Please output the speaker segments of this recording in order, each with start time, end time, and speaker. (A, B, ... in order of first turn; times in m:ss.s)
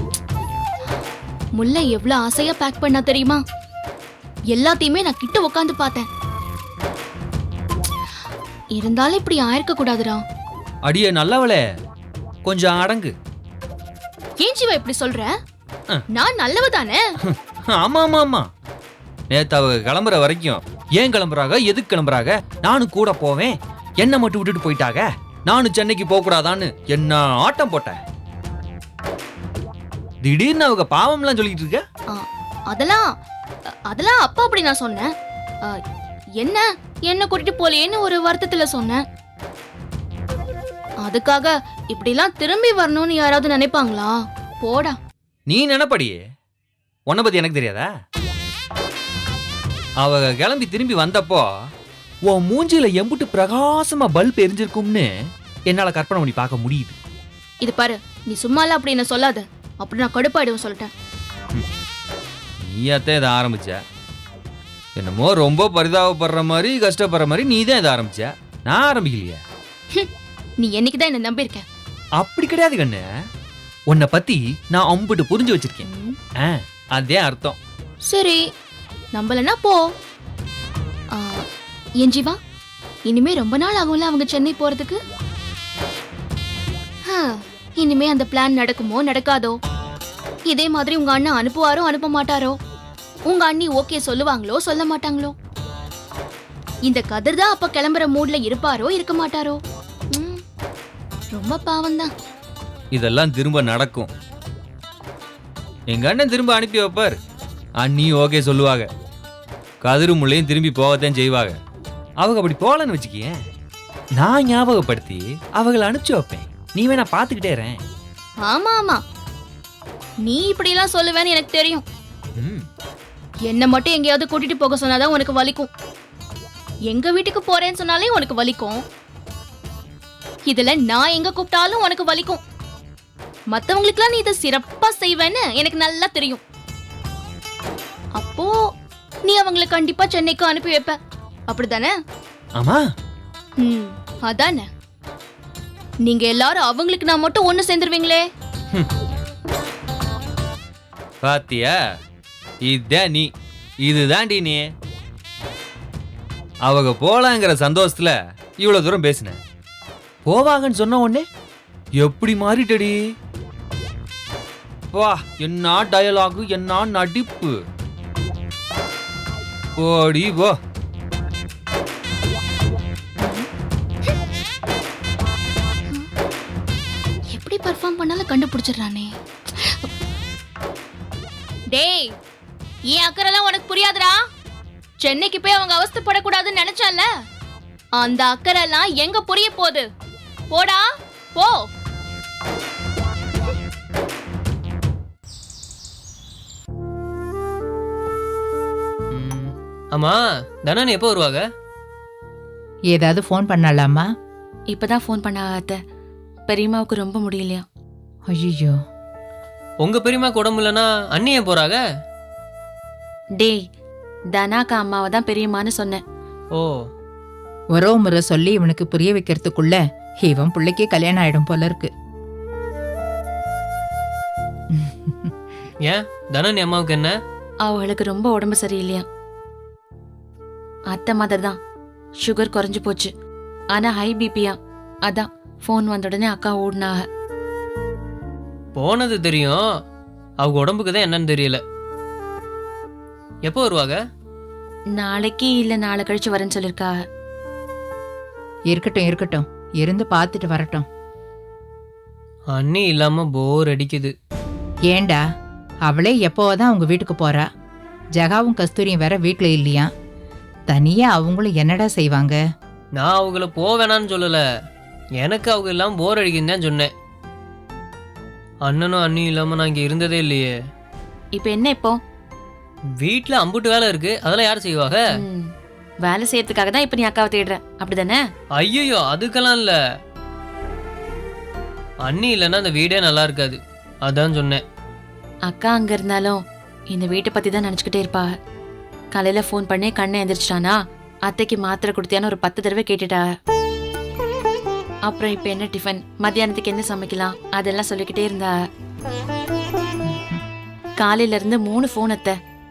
0:01.6-0:03.4 A
0:04.5-0:06.1 A
0:08.7-0:10.2 A
0:10.8-0:11.6 B
0:12.4-0:13.1 B
0:14.4-0:15.3 A
0:16.1-0:17.0 A
0:17.3-0:18.5 B
0:19.3-0:28.0 B
0:30.2-0:31.8 B
0:32.1-0:33.0 A
0:33.9-0:35.1 A
0:36.4-0:39.0 A
0:41.0-0:45.0 A
0:45.5-0:46.2 B
0:47.1-0:47.9 B
0:50.0-0:51.5 B
0:52.3-0:55.1 B
0:55.7-0:57.0 B
0:57.6-1:00.9 A
1:02.6-1:03.8 B
1:05.0-1:09.4 B
1:10.6-1:11.6 A
1:12.2-1:13.0 B
1:13.9-1:15.8 B
1:15.9-1:16.2 A
1:16.4-1:17.6 B
1:18.1-1:18.4 A
1:19.1-1:19.8 A
1:21.2-1:21.4 A
1:22.0-1:22.4 A
1:23.1-1:25.0 A
1:27.8-1:29.6 A
1:30.5-1:32.6 A
1:33.3-1:35.3 A
1:36.8-1:39.6 A
1:40.1-1:40.4 A
1:41.3-1:42.1 A
1:42.9-1:44.1 B
1:45.9-1:47.2 B
1:47.8-1:48.9 B
1:49.8-1:51.6 B
1:52.2-1:53.4 B
1:54.2-1:57.8 B
1:58.4-1:59.0 A
2:00.2-2:01.8 A
2:02.4-2:02.7 B
2:03.5-2:05.7 A
2:06.9-2:08.8 A
2:10.5-2:12.4 A
2:13.5-2:16.4 A
2:18.2-2:18.5 A
2:19.2-2:21.0 A
2:21.5-2:21.9 A
2:22.6-2:22.8 B
2:23.6-2:24.6 A
2:26.0-2:28.2 A
2:31.2-2:31.7 B
2:32.7-2:33.3 B
2:33.8-2:34.7 B
2:36.6-2:39.4 B
2:40.2-2:41.2 B
2:42.0-2:43.0 B
2:44.9-2:47.5 B
2:49.8-2:50.5 B
2:57.3-2:59.1 A
3:01.7-3:02.1 A
3:02.9-3:04.2 A
3:05.0-3:07.0 A
3:08.0-3:09.8 A
3:10.5-3:10.8 A
3:11.4-3:11.6 A
3:19.1-3:21.4 C
3:22.9-3:24.1 D
3:24.7-3:25.8 E
3:26.5-3:27.6 E
3:28.3-3:28.8 D
3:29.8-3:31.8 C
3:34.3-3:36.0 E
3:37.7-3:41.9 D
3:45.8-3:47.1 C
3:47.6-3:49.0 E
3:50.9-3:51.6 E
3:52.2-3:53.1 E
3:53.7-3:57.0 E
3:58.7-3:59.6 C
4:00.4-4:01.6 C
4:03.5-4:04.0 C
4:04.9-4:06.9 E
4:08.7-4:10.8 D
4:12.5-4:14.1 C
4:14.9-4:15.2 D
4:15.9-4:17.5 D
4:18.2-4:19.9 D
4:20.7-4:22.4 D
4:23.0-4:24.4 C
4:25.2-4:26.9 C
4:28.6-4:30.5 C
4:31.3-4:32.0 E
4:33.0-4:35.0 C
4:35.2-4:35.5 E
4:36.0-4:38.2 E
4:38.6-4:39.8 C
4:42.0-4:44.6 C
4:45.5-4:46.4 E
4:46.9-4:48.3 E
4:49.1-4:53.2 E
4:55.0-4:58.5 E
5:01.0-5:02.4 E